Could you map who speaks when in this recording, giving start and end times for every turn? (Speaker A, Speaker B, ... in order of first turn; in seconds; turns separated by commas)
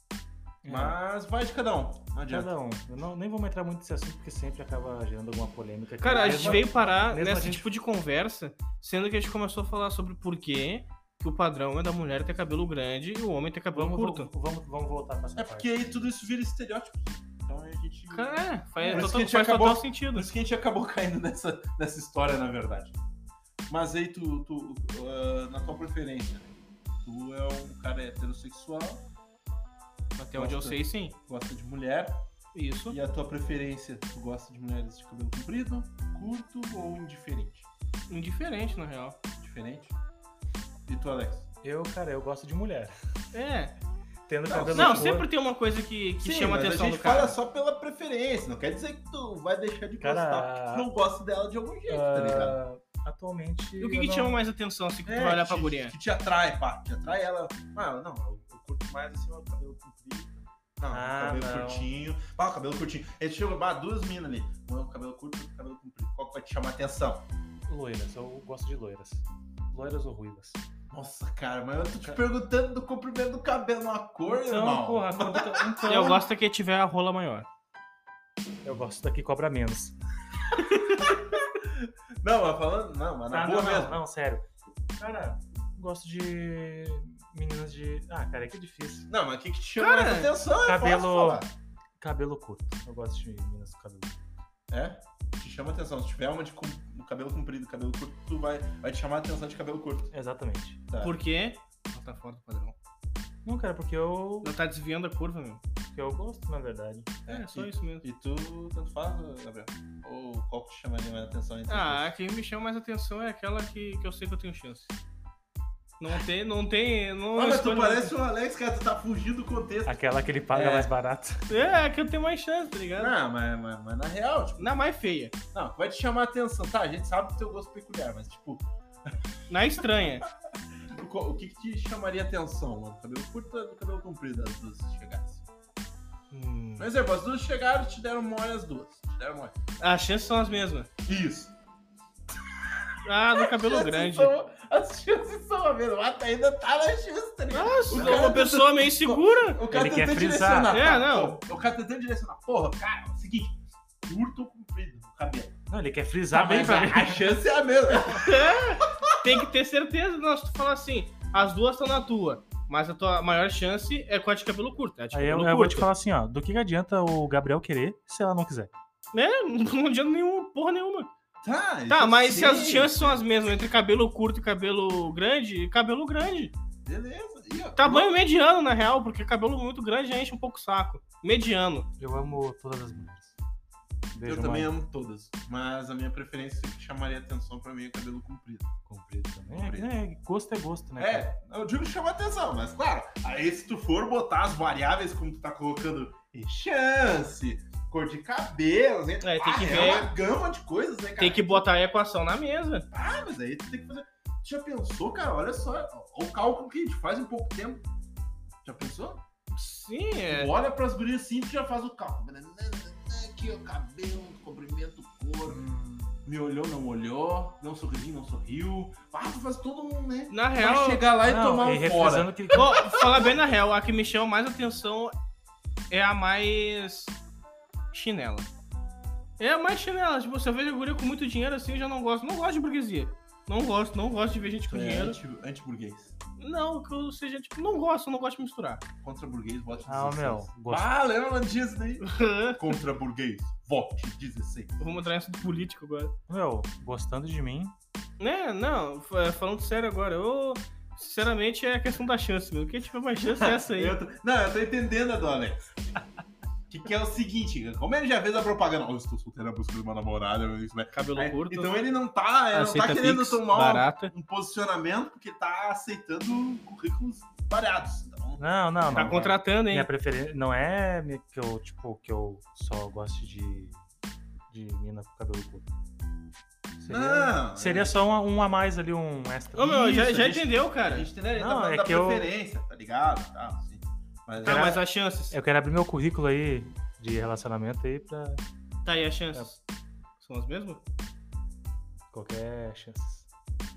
Speaker A: 0.6-1.0, Speaker B: 0.7-2.5, Speaker A: 2.3-7.6, Speaker C: 6.0-14.3, Speaker A: 13.7-16.0, Speaker B: 15.3-23.0, Speaker C: 18.1-20.3, Speaker A: 18.8-19.1, Speaker B: 23.7-26.5, Speaker B: 27.0-29.0, Speaker C: 30.2-31.1, Speaker B: 30.3-32.2, Speaker C: 32.5-33.0, Speaker B: 32.9-37.7, Speaker C: 38.1-39.2, Speaker B: 39.4-39.9, Speaker B: 40.9-41.5, Speaker A: 41.6-43.0, Speaker C: 43.3-43.7, Speaker A: 44.3-45.3, Speaker B: 44.5-45.1, Speaker C: 44.7-47.4, Speaker B: 46.2-52.6, Speaker A: 50.0-50.9, Speaker A: 51.9-54.4, Speaker C: 53.8-55.9, Speaker B: 55.0-67.3, Speaker A: 60.9-61.9, Speaker A: 67.7-70.6, Speaker B: 70.9-76.2, Speaker A: 74.3-76.2, Speaker C: 75.8-77.5, Speaker A: 78.6-79.9, Speaker B: 81.0-84.0, Speaker A: 83.3-84.4, Speaker A: 85.0-89.1, Speaker B: 89.1-91.5, Speaker C: 89.8-90.3, Speaker A: 90.6-91.5, Speaker A: 92.0-94.2, Speaker B: 94.7-100.1, Speaker A: 100.1-100.8, Speaker B: 100.9-101.2, Speaker C: 101.0-102.8, Speaker A: 103.4-104.5, Speaker C: 104.4-105.6, Speaker A: 105.9-107.2, Speaker B: 107.2-112.1, Speaker C: 107.3-108.0, Speaker C: 111.7-114.9, Speaker C: 116.0-118.1, Speaker B: 117.3-120.0, Speaker A: 119.8-121.5, Speaker B: 120.5-120.9, Speaker C: 121.5-123.1, Speaker B: 123.0-124.8, Speaker C: 124.6-125.3, Speaker B: 125.5-129.1, Speaker C: 129.5-130.3, Speaker B: 130.8-135.4, Speaker C: 136.3-136.9, Speaker B: 136.8-139.5, Speaker C: 139.8-140.9, Speaker B: 141.1-141.5, Speaker C: 143.0-144.3, Speaker B: 143.3-155.6, Speaker C: 147.5-149.6, Speaker A: 149.7-150.8, Speaker C: 150.7-151.4, Speaker A: 155.7-157.4, Speaker B: 156.3-159.4, Speaker C: 158.2-165.9, Speaker A: 165.1-168.7, Speaker C: 169.1-171.1, Speaker B: 171.4-173.2, Speaker C: 171.9-176.5, Speaker B: 176.8-178.1, Speaker C: 177.8-181.9, Speaker A: 182.0-183.3, Speaker A: 184.1-184.7, Speaker B: 184.2-188.7, Speaker A: 188.9-191.3, Speaker B: 189.5-189.9, Speaker B: 191.0-201.6, Speaker C: 199.2-200.1, Speaker C: 201.2-202.9, Speaker B: 202.9-207.8, Speaker B: 208.6-209.2, Speaker C: 209.5-210.5, Speaker B: 210.3-215.6, Speaker A: 215.5-216.1, Speaker B: 216.2-223.3, Speaker C: 220.3-221.0, Speaker A: 221.2-222.8, Speaker C: 222.5-225.1, Speaker C: 225.9-227.2, Speaker C: 227.9-228.5, Speaker C: 229.4-235.2, Speaker B: 234.7-236.2, Speaker C: 236.4-238.8, Speaker B: 239.0-244.8, Speaker A: 239.8-240.9, Speaker C: 242.0-242.8, Speaker C: 244.8-246.1, Speaker A: 246.3-247.7, Speaker C: 248.2-254.0, Speaker B: 253.3-255.7, Speaker B: 256.7-269.3, Speaker C: 260.9-261.7, Speaker C: 262.5-264.1, Speaker A: 268.4-273.8, Speaker C: 268.9-269.9, Speaker A: 274.5-275.7, Speaker A: 276.8-280.1, Speaker B: 276.9-278.0, Speaker C: 279.5-281.1, Speaker B: 279.9-284.8, Speaker A: 281.3-282.3, Speaker A: 284.4-288.4, Speaker C: 284.4-285.3, Speaker C: 288.8-289.6, Speaker C: 290.2-290.8, Speaker A: 292.1-293.3